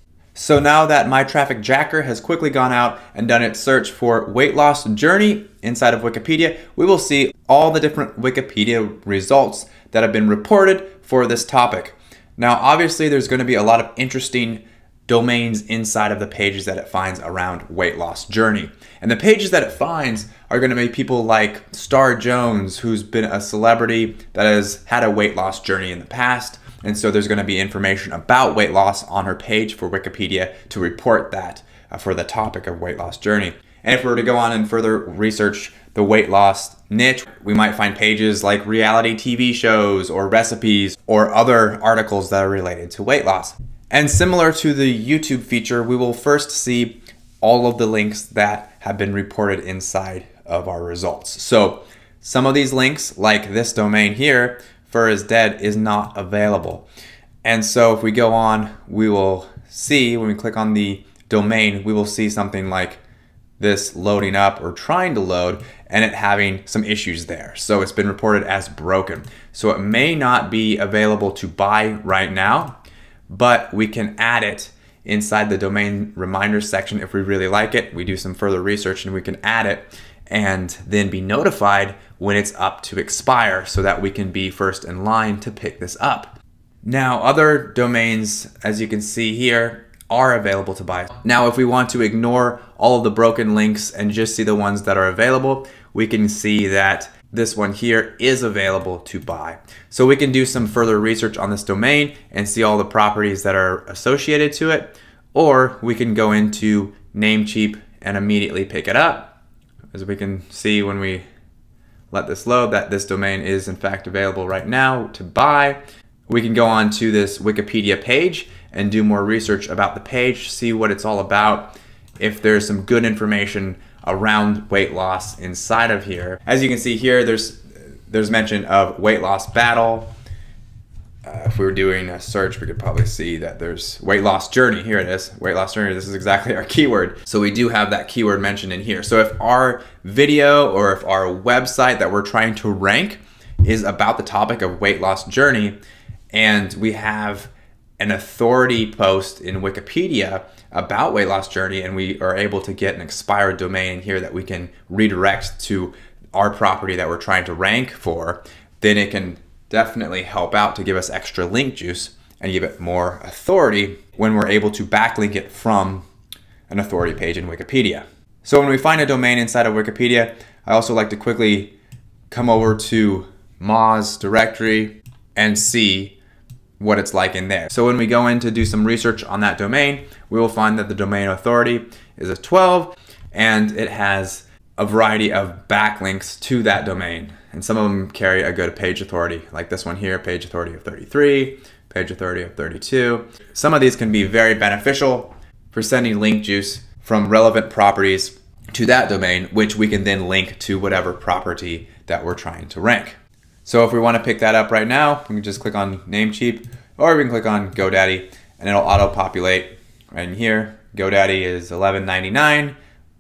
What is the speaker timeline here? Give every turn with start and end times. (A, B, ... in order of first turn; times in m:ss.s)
0:00.4-0:56.9 A
0:57.4-1:03.0 A
1:03.6-1:12.8 A
1:13.3-1:49.4 A
1:49.9-1:51.2 A
1:52.1-2:10.1 A
2:11.2-2:25.8 A
2:26.3-2:46.0 A
2:46.7-2:51.7 A
2:52.3-2:56.2 A
2:56.8-3:32.8 A